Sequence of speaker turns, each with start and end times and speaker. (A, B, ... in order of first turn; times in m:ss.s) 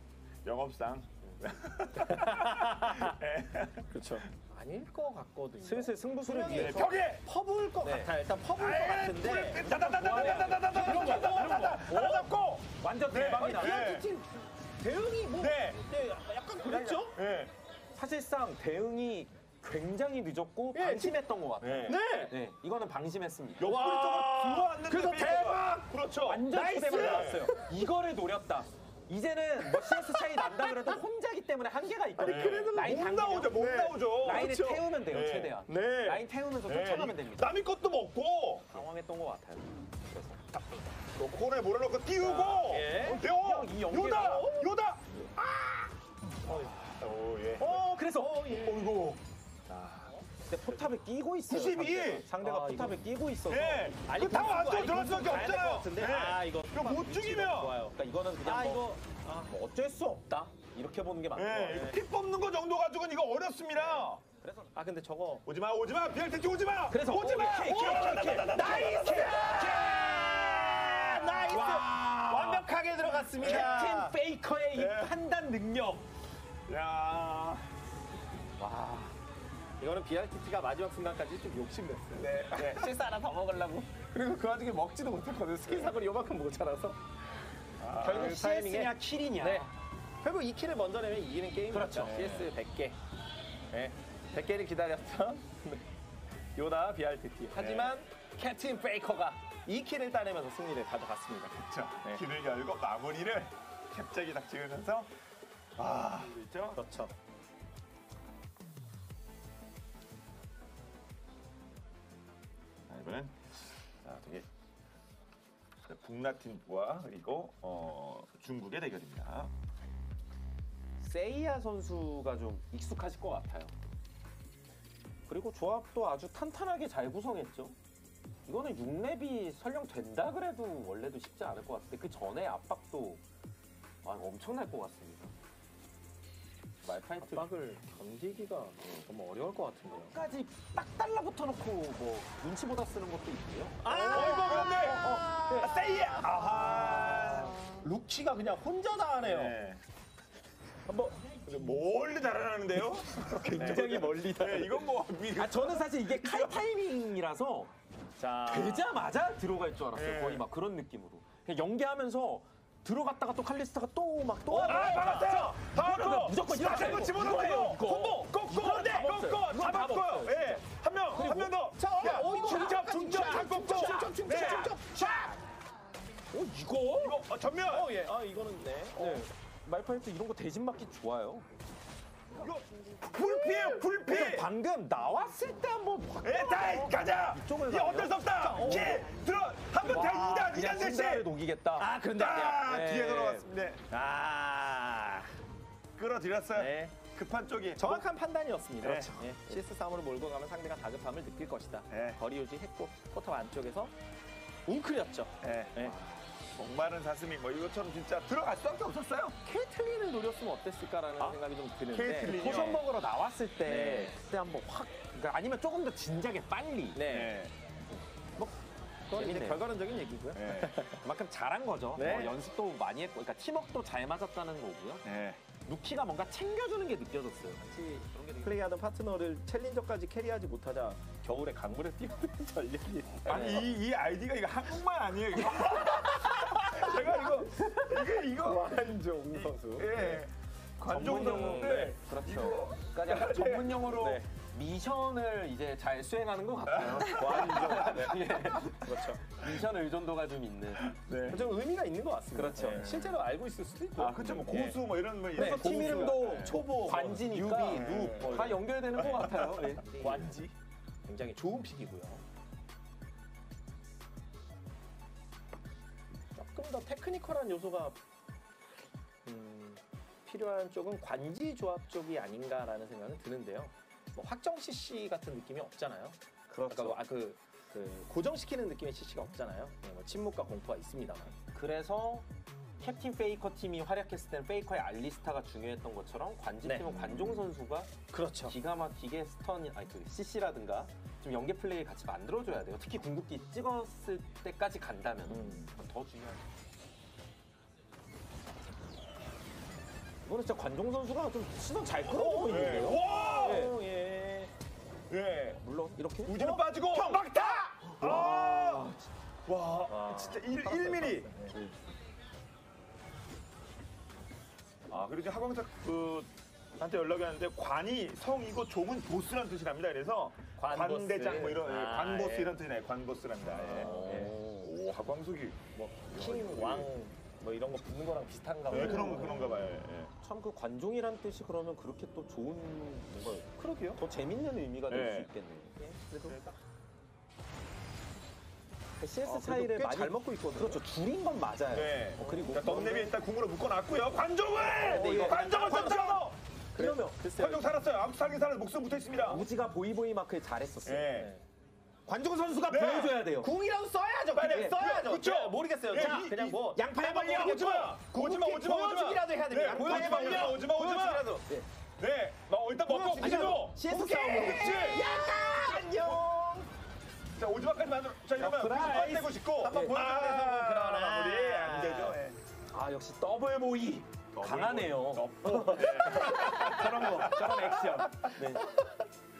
0:00.4-0:04.0 A
0:02.1-0:03.1 B
0:03.9-0:12.4 B
0:05.6-0:06.9 C
0:06.5-0:07.2 A
0:07.8-0:08.1 C
0:08.6-0:14.1 A
0:09.5-0:13.9 C
0:13.3-0:17.2 B
0:15.4-0:15.8 A
0:16.6-0:17.5 A
0:18.0-0:23.7 C
0:20.7-0:21.2 B
0:21.6-0:22.0 A
0:21.9-0:22.4 B
0:23.6-0:27.5 A
0:23.6-0:25.9 B
0:26.2-0:37.6 C
0:26.5-0:27.7 B
0:29.7-0:31.0 B
0:32.2-0:34.9 B
0:32.2-0:34.5 A
0:35.1-0:35.6 A
0:35.7-0:36.2 B
0:36.6-0:38.8 A
0:38.7-0:40.4 C
0:41.1-0:45.1 A
0:42.2-0:44.5 C
0:42.4-0:43.2 B
0:44.1-0:44.7 B
0:45.4-0:45.9 B
0:46.4-0:47.9 A
0:46.5-0:46.8 B
0:47.6-0:48.4 C
0:47.6-0:49.0 B
0:48.5-0:49.2 A
0:49.7-0:50.3 B
0:50.5-0:54.0 C
0:51.5-0:52.3 A
0:52.4-0:53.0 B
0:53.5-0:57.8 A
0:54.0-0:59.5 B
0:57.9-1:02.0 C
1:01.3-1:04.2 A
1:01.6-1:02.0 B
1:04.0-1:04.7 C
1:04.7-1:05.5 B
1:05.4-1:13.9 A
1:06.9-1:10.0 C
1:07.1-1:14.2 B
1:13.4-1:16.0 C
1:14.7-1:15.2 A
1:16.7-1:17.7 A
1:18.6-1:19.2 C
1:19.8-1:27.0 B
1:22.1-1:22.9 A
1:27.8-1:28.4 A
1:28.0-1:29.7 B
1:28.0-1:29.7 C
1:30.2-1:33.0 B
1:31.7-1:32.4 C
1:32.0-1:32.5 A
1:33.7-1:35.9 B
1:36.6-1:42.2 B
1:37.5-1:38.0 A
1:41.5-1:45.1 A
1:45.8-1:46.8 A
1:46.8-1:47.1 B
1:52.9-1:54.4 A
1:55.8-1:59.5 A
2:01.0-2:03.7 C
2:05.3-2:07.8 C
2:08.5-2:13.2 C
2:14.0-2:15.3 C
2:16.8-2:17.5 C
2:17.2-2:20.2 B
2:20.0-2:25.9 C
2:23.8-2:29.6 B
2:23.9-2:27.6 A
2:29.2-2:29.8 A
2:30.9-2:31.3 C
2:31.4-2:36.6 A
2:33.2-2:37.7 C
2:38.2-2:38.9 B
2:38.5-2:51.6 C
2:39.9-2:40.4 A
2:44.5-2:45.5 B
2:44.6-2:54.8 A
2:51.2-2:55.4 B
2:52.3-2:55.3 C
2:56.3-2:57.2 C
2:57.0-2:58.0 A
2:57.7-2:59.3 B
2:59.0-3:01.5 C
3:02.4-3:04.5 A
3:03.2-3:03.9 B
3:04.0-3:09.0 C
3:06.2-3:13.9 A
3:08.4-3:09.1 B
3:09.8-3:13.5 C
3:11.9-3:12.1 B
3:13.9-3:15.3 B
3:16.0-3:18.0 A
3:16.5-3:17.0 B
3:17.8-3:23.9 B
3:18.8-3:19.2 A
3:21.9-3:22.2 A
3:24.7-3:26.0 B
3:25.4-3:29.4 A
3:29.4-3:32.8 B
3:31.9-3:32.8 A
3:32.2-3:37.0 C
3:33.6-3:34.2 B
3:36.9-3:37.4 B
3:37.0-3:37.5 A
3:39.1-3:41.0 B
3:39.1-3:39.7 C
3:40.3-3:40.8 A
3:41.0-3:45.0 C
3:42.0-3:42.4 B
3:45.0-3:45.4 A
3:45.6-3:48.7 C
3:48.4-3:53.7 B
3:53.2-4:03.7 A
3:53.3-3:53.7 C
3:55.5-3:55.8 C
3:55.7-4:00.2 B
4:00.9-4:10.9 C
4:01.0-4:02.0 B
4:03.2-4:04.2 B
4:06.7-4:08.1 A
4:07.0-4:09.2 B
4:10.8-4:11.6 A
4:11.3-4:14.8 B
4:12.3-4:12.9 C
4:12.6-4:13.1 A
4:14.0-4:16.7 A
4:15.3-4:20.3 C
4:15.3-4:18.6 B
4:17.6-4:19.8 A
4:19.9-4:20.5 B
4:21.0-4:22.2 B
4:26.4-4:28.0 B
4:29.2-4:36.2 B
4:36.5-4:37.0 C
4:36.7-4:41.4 B
4:41.5-4:42.2 C
4:42.8-4:47.9 C
4:46.8-4:47.5 A
4:48.1-4:48.6 B
4:48.4-4:56.4 C
4:55.3-4:55.7 B
5:00.2-5:03.8 C
5:02.1-5:04.5 B
5:02.5-5:03.7 A
5:05.1-5:05.6 A
5:05.6-5:06.4 C
5:06.3-5:08.9 A
5:06.3-5:07.8 B
5:07.8-5:09.1 C
5:09.4-5:11.3 A
5:09.9-5:11.6 B
5:14.9-5:26.9 A
5:20.6-5:22.6 B
5:23.6-5:24.4 B
5:23.6-5:24.7 C
5:25.8-5:29.7 B
5:28.7-5:30.1 A
5:28.7-5:29.5 C
5:30.2-5:35.8 C
5:33.6-5:34.0 B
5:34.9-5:35.3 A
5:35.8-5:36.6 B
5:39.0-5:43.1 C
5:39.2-5:40.8 B
5:41.7-5:46.4 A
5:42.2-5:42.5 B
5:44.6-5:47.7 B
5:44.7-5:46.2 C
5:46.8-5:47.3 C
5:47.4-5:49.5 A
5:49.2-5:51.1 C
5:50.8-5:51.3 A
5:51.1-5:51.4 B
5:52.1-5:53.5 C
5:52.7-5:53.2 A
5:53.4-6:01.5 B
5:54.3-6:01.3 A
5:54.5-5:54.8 C
5:55.9-5:57.9 C
5:59.7-6:00.6 C
6:02.0-6:05.1 A
6:02.9-6:06.7 B
6:02.9-6:06.1 C
6:05.8-6:06.3 A
6:07.4-6:12.4 A
6:08.4-6:10.0 C
6:09.6-6:12.2 B
6:12.7-6:18.6 C
6:14.4-6:18.1 A
6:15.8-6:19.0 B